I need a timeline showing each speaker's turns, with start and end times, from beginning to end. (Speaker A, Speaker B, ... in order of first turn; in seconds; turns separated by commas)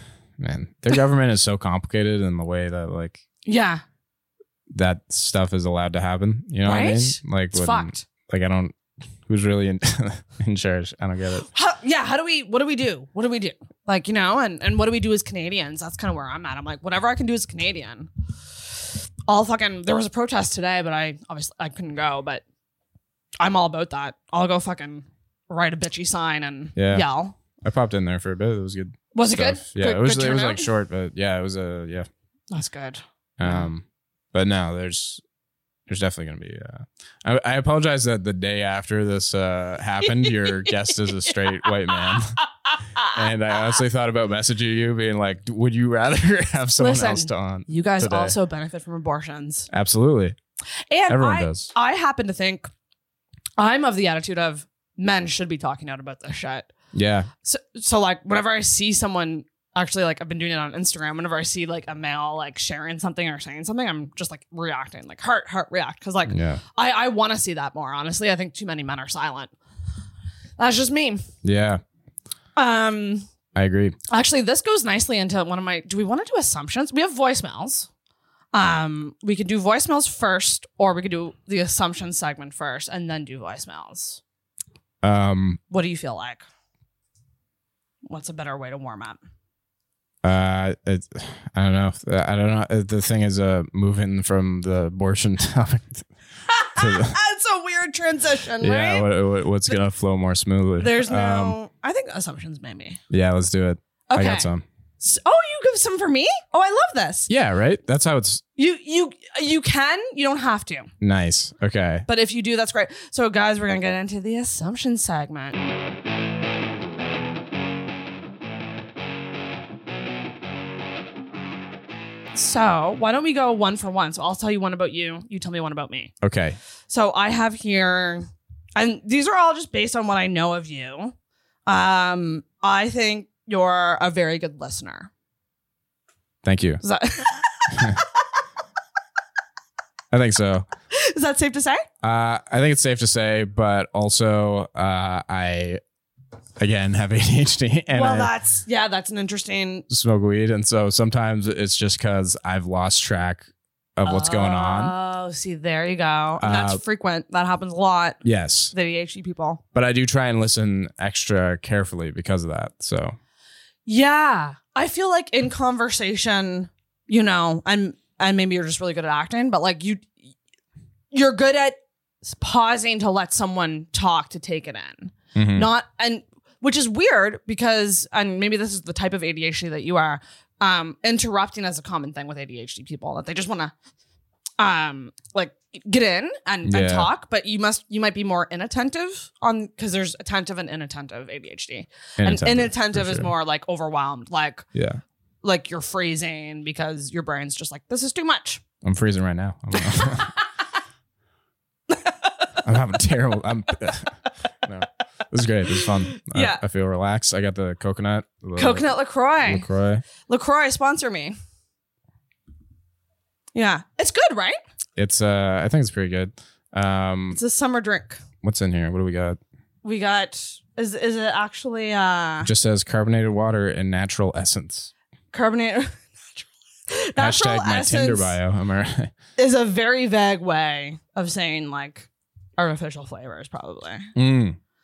Speaker A: 0.4-3.2, Speaker B: 3.4-3.8, Speaker A: 4.7-8.7, Speaker B: 6.6-8.0, Speaker A: 9.2-11.5, Speaker B: 11.4-18.1, Speaker B: 19.3-22.4, Speaker B: 23.4-27.3, Speaker A: 26.8-27.1, Speaker A: 27.6-32.1, Speaker B: 29.1-30.7, Speaker B: 32.5-33.7, Speaker A: 33.4-35.2, Speaker A: 35.9-42.3, Speaker B: 40.0-43.2, Speaker A: 43.0-48.4, Speaker B: 46.8-49.7, Speaker A: 49.7-50.4, Speaker B: 50.9-52.7, Speaker A: 51.1-51.7, Speaker B: 53.6-56.7, Speaker A: 56.9-57.3, Speaker B: 57.4-69.5, Speaker A: 66.2-66.6, Speaker B: 70.6-71.2, Speaker A: 71.4-71.8, Speaker B: 72.5-73.3, Speaker A: 73.5-74.0, Speaker B: 74.1-77.9, Speaker B: 78.5-84.2, Speaker A: 85.0-85.6, Speaker B: 85.7-86.4, Speaker B: 88.0-89.2, Speaker A: 90.2-96.0, Speaker B: 96.5-99.1, Speaker A: 96.7-97.2, Speaker A: 98.6-101.6, Speaker B: 100.8-103.0, Speaker A: 103.1-104.6, Speaker B: 104.1-107.3, Speaker A: 107.3-108.4, Speaker B: 108.6-110.9, Speaker A: 111.0-112.0, Speaker B: 112.1-115.6, Speaker B: 122.3-126.1, Speaker A: 126.2-126.6, Speaker B: 126.9-131.1, Speaker B: 131.7-135.1, Speaker A: 136.4-136.8, Speaker B: 136.8-138.0, Speaker A: 140.1-140.7, Speaker B: 140.9-141.8, Speaker A: 142.0-145.8, Speaker A: 146.6-148.3, Speaker B: 147.9-149.8, Speaker A: 149.9-154.9, Speaker B: 154.0-158.2, Speaker A: 156.4-156.8, Speaker A: 158.2-158.7, Speaker B: 158.7-159.6, Speaker A: 159.7-163.2, Speaker B: 163.8-170.1, Speaker B: 171.1-183.7, Speaker A: 175.3-175.7, Speaker B: 184.6-194.7, Speaker A: 186.6-187.1, Speaker A: 192.2-193.3, Speaker A: 194.7-195.0, Speaker B: 195.4-198.6, Speaker A: 198.8-200.3, Speaker B: 200.0-200.3, Speaker A: 202.6-210.0, Speaker B: 205.8-206.6, Speaker B: 208.6-209.7, Speaker B: 210.2-211.3, Speaker B: 213.5-214.6, Speaker A: 215.0-217.4, Speaker B: 217.3-218.2, Speaker A: 218.4-219.4, Speaker B: 219.8-222.5, Speaker A: 222.4-224.9, Speaker B: 225.3-228.3, Speaker A: 227.2-229.1, Speaker B: 229.4-234.1, Speaker A: 234.1-234.6